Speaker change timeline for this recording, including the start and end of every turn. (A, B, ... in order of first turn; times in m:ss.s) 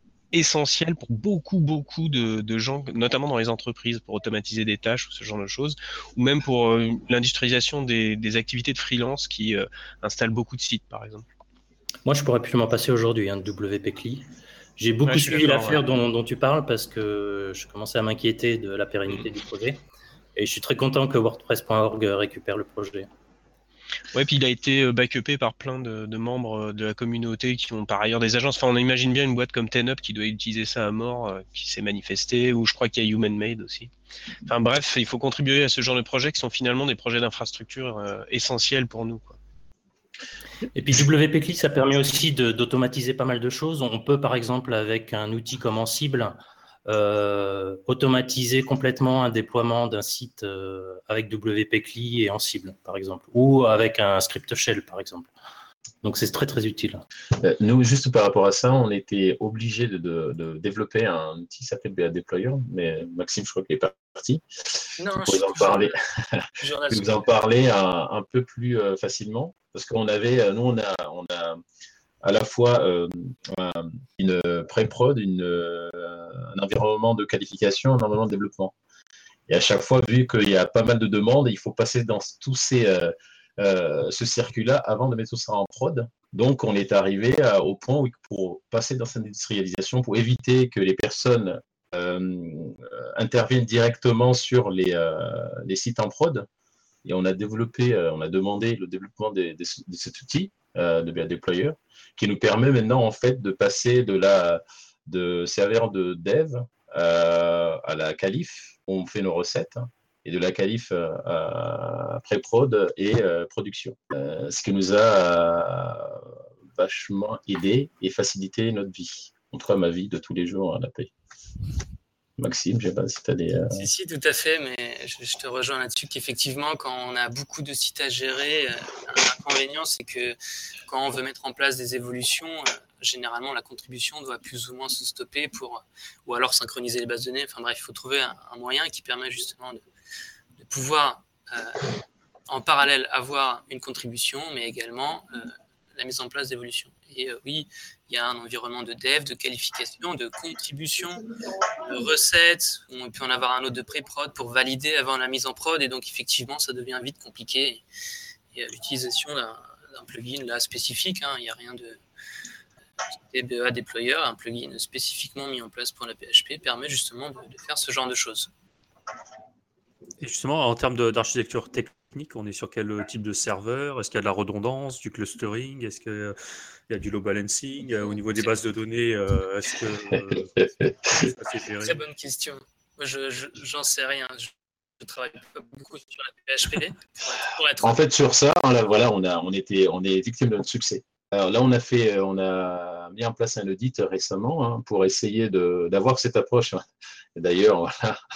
0:00.3-0:11.2 A
0:12.1-0:19.8 B
0:15.1-0:15.8 A
0:20.4-0:23.1 B
0:24.1-0:33.9 A
0:34.5-0:39.4 A
0:40.7-0:55.3 B
0:56.0-0:57.0 B
0:57.4-1:11.6 C
1:05.0-1:06.0 D
1:06.6-1:07.3 D
1:12.2-1:18.7 C
1:19.5-1:36.5 C
1:37.0-1:56.2 C
1:56.8-2:01.1 C
2:02.4-2:03.8 C
2:03.7-2:10.4 D
2:10.9-2:19.8 D
2:20.6-2:21.9 D
2:22.5-2:31.2 D
2:31.8-2:37.8 D
2:38.5-2:42.0 D
2:43.2-2:48.5 D
2:50.2-2:56.4 E
2:56.9-3:00.5 E
3:00.6-3:01.2 C
3:01.1-3:02.0 E
3:01.8-3:08.0 D
3:07.8-3:16.8 C
3:17.4-3:18.2 C